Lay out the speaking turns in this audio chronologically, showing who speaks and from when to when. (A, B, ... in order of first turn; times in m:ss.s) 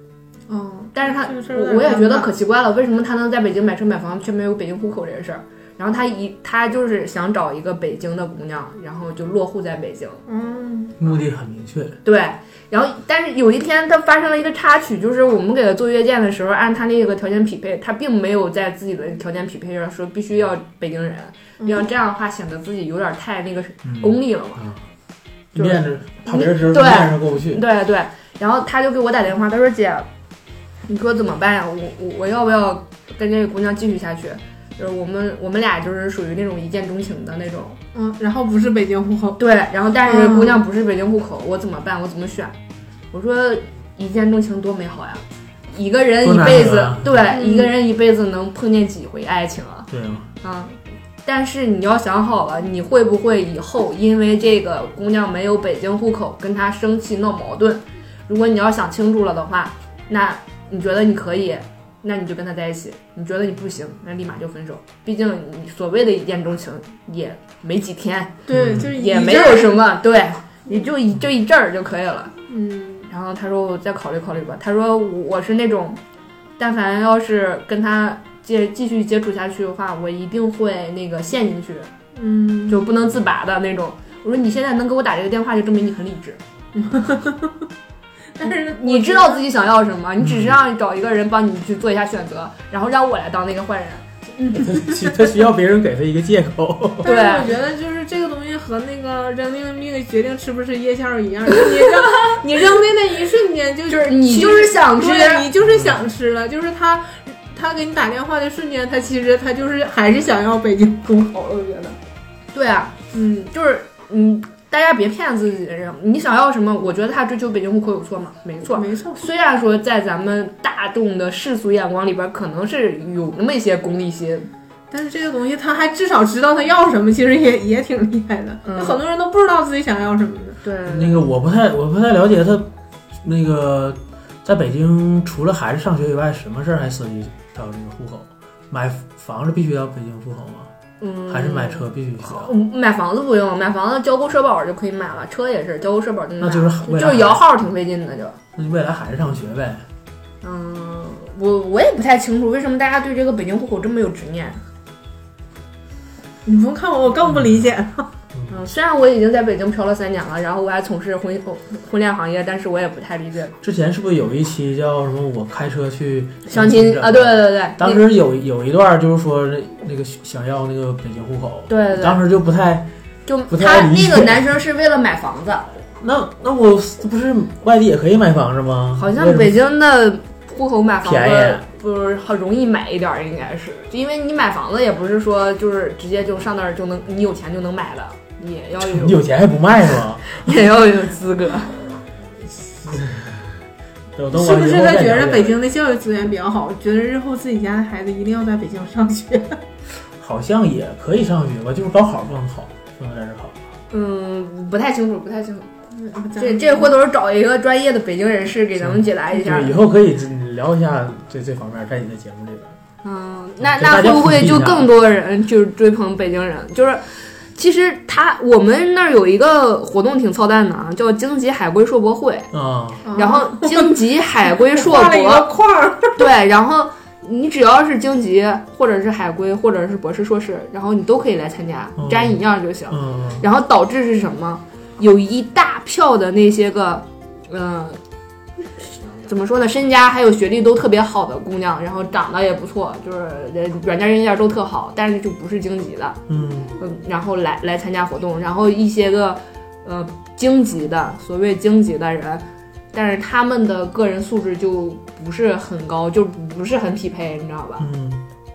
0:00.5-0:02.3 A
0:00.9-0:10.2 B
0:10.3-0:11.0 A
0:11.0-0:12.0 C
0:12.0-0:24.6 B
0:21.6-0:21.9 A
0:23.8-0:24.8 C
0:25.5-0:27.6 C
0:25.5-0:30.1 B
0:30.9-0:37.8 B
0:37.9-0:39.4 A
0:39.4-0:42.5 B
0:40.0-0:40.6 A
0:43.1-0:49.9 B
0:46.2-0:47.2 C
0:47.3-0:47.7 A
0:49.9-0:50.3 C
0:50.4-1:12.3 B
1:08.5-1:09.8 A
1:08.5-1:08.9 C
1:12.5-1:13.1 A
1:13.1-1:16.0 B
1:16.6-1:21.9 B
1:22.2-1:22.9 A
1:22.7-1:26.4 B
1:26.7-1:27.6 A
1:28.4-1:29.4 A
1:28.5-1:34.0 B
1:30.2-1:30.6 C
1:34.4-1:35.0 A
1:34.5-1:37.1 C
1:37.0-1:52.0 A
1:37.0-1:37.5 B
1:43.9-1:45.5 B
1:45.6-1:46.0 C
1:52.5-2:04.5 B
1:53.1-1:53.4 A
1:58.7-1:59.2 A
2:04.9-2:10.6 A
2:08.6-2:09.0 B
2:10.6-2:11.2 B
2:10.9-2:12.7 C
2:13.2-2:20.7 C
2:21.0-2:28.4 B
2:21.3-2:22.5 C
2:26.4-2:27.4 C
2:28.6-2:29.8 C
2:30.4-2:34.6 B
2:36.4-2:38.1 A
2:37.3-2:37.6 C
2:38.5-2:43.5 B
2:43.6-2:52.9 C
2:46.5-2:48.0 B
2:51.7-2:52.2 B
2:53.2-2:55.8 B
2:53.5-2:54.5 C
2:56.0-2:59.6 C
2:59.0-3:09.2 B
3:01.0-3:01.6 C
3:08.8-3:10.5 C
3:10.3-3:11.8 B
3:12.6-3:13.5 C
3:14.1-3:15.6 C
3:14.3-3:19.6 A
3:20.2-3:23.6 C
3:23.9-3:25.7 B
3:25.9-3:26.9 A
3:26.4-3:29.8 B
3:28.8-3:32.7 C
3:33.0-3:37.0 B
3:33.6-3:34.9 C
3:37.5-3:42.5 B
3:42.5-3:43.0 C
3:43.0-3:46.2 A
3:43.1-3:45.5 B
3:46.2-3:58.0 B
3:52.0-3:53.4 C
3:59.2-4:06.2 B
4:06.3-4:06.7 C
4:06.8-4:17.9 B
4:17.8-4:18.2 C